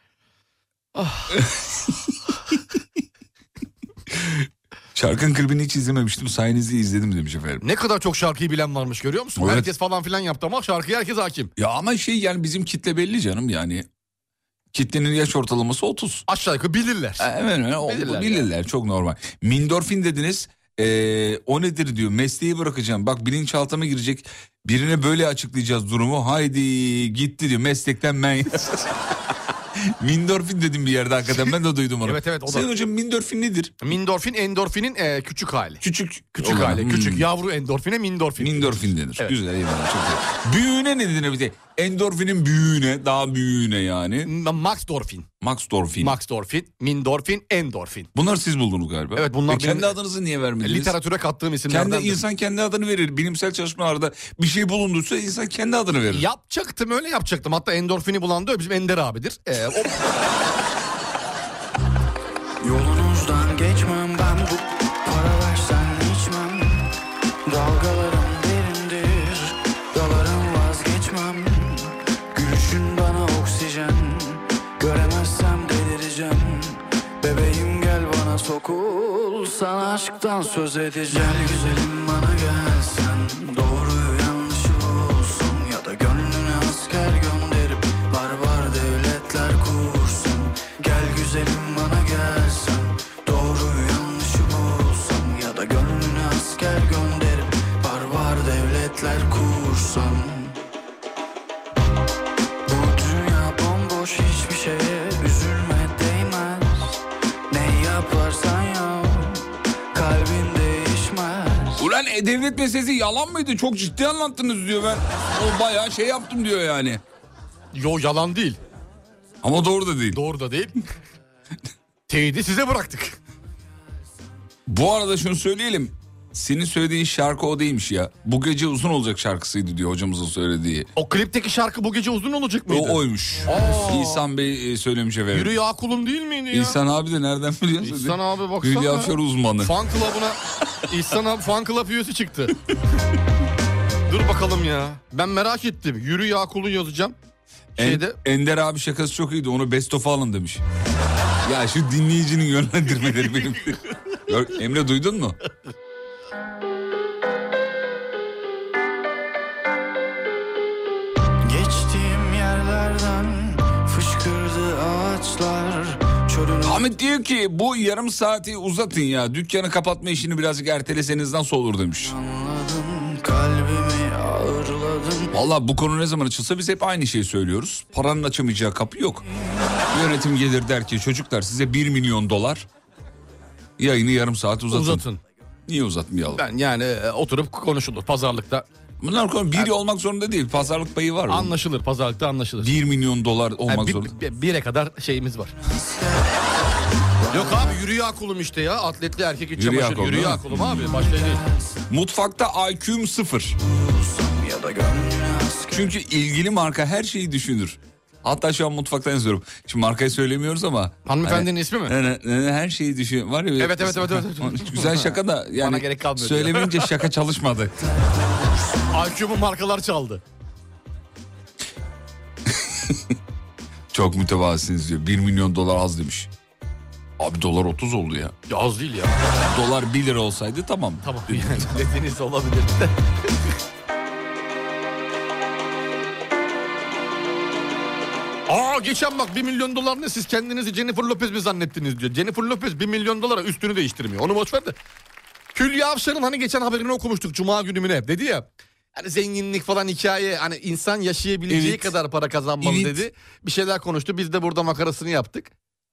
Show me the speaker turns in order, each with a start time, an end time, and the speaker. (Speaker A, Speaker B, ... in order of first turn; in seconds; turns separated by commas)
Speaker A: 0.9-1.4, Speaker B: 1.4-1.9, Speaker B: 4.1-7.6, Speaker A: 7.6-11.5, Speaker B: 9.4-9.7, Speaker B: 11.6-13.9, Speaker B: 14.7-16.3, Speaker A: 16.3-17.3, Speaker B: 17.2-29.1, Speaker A: 17.9-18.5, Speaker B: 29.8-33.8, Speaker A: 32.0-32.7, Speaker A: 33.8-35.8, Speaker B: 35.8-37.3, Speaker A: 36.4-39.4, Speaker B: 38.4-44.3, Speaker A: 44.2-45.3, Speaker B: 45.4-46.2, Speaker A: 46.0-48.1, Speaker B: 48.1-51.0, Speaker A: 49.1-50.0, Speaker A: 50.6-52.2, Speaker B: 51.7-56.3, Speaker A: 56.1-60.0, Speaker C: 62.6-66.9, Speaker C: 67.5-100.6, Speaker C: 102.7-111.9, Speaker B: 111.8-117.0, Speaker A: 117.7-118.6, Speaker B: 119.4-120.2, Speaker A: 120.1-120.8, Speaker A: 122.1-123.2, Speaker B: 124.7-130.9, Speaker A: 131.0-134.2, Speaker B: 132.7-135.6, Speaker A: 135.3-136.8, Speaker B: 136.5-139.7, Speaker A: 137.8-142.6, Speaker A: 144.1-147.2, Speaker B: 147.8-150.6, Speaker A: 147.8-148.2, Speaker B: 151.4-155.4, Speaker C: 161.4-166.8, Speaker B: 166.7-172.2, Speaker C: 172.0-175.3, Speaker B: 175.3-179.2, Speaker B: 179.9-182.7, Speaker B: 183.8-185.0, Speaker A: 184.7-185.2, Speaker B: 185.7-186.4, Speaker A: 186.3-188.7, Speaker B: 189.0-191.5, Speaker A: 191.3-192.7, Speaker B: 192.6-194.1, Speaker A: 193.7-195.5, Speaker C: 195.6-196.6, Speaker C: 197.2-197.8, Speaker A: 197.3-201.4, Speaker B: 199.6-200.7, Speaker C: 200.7-201.5, Speaker B: 201.9-203.6, Speaker C: 203.7-205.9, Speaker B: 205.7-217.9, Speaker A: 211.1-211.9, Speaker A: 213.6-217.1, Speaker A: 218.8-220.2, Speaker B: 222.5-223.2, Speaker B: 223.9-226.3, Speaker B: 227.2-228.3, Speaker A: 228.5-229.2, Speaker B: 229.4-231.7, Speaker A: 231.0-232.9, Speaker A: 238.5-244.8, Speaker A: 245.6-255.5, Speaker B: 251.5-251.9, Speaker B: 252.6-253.1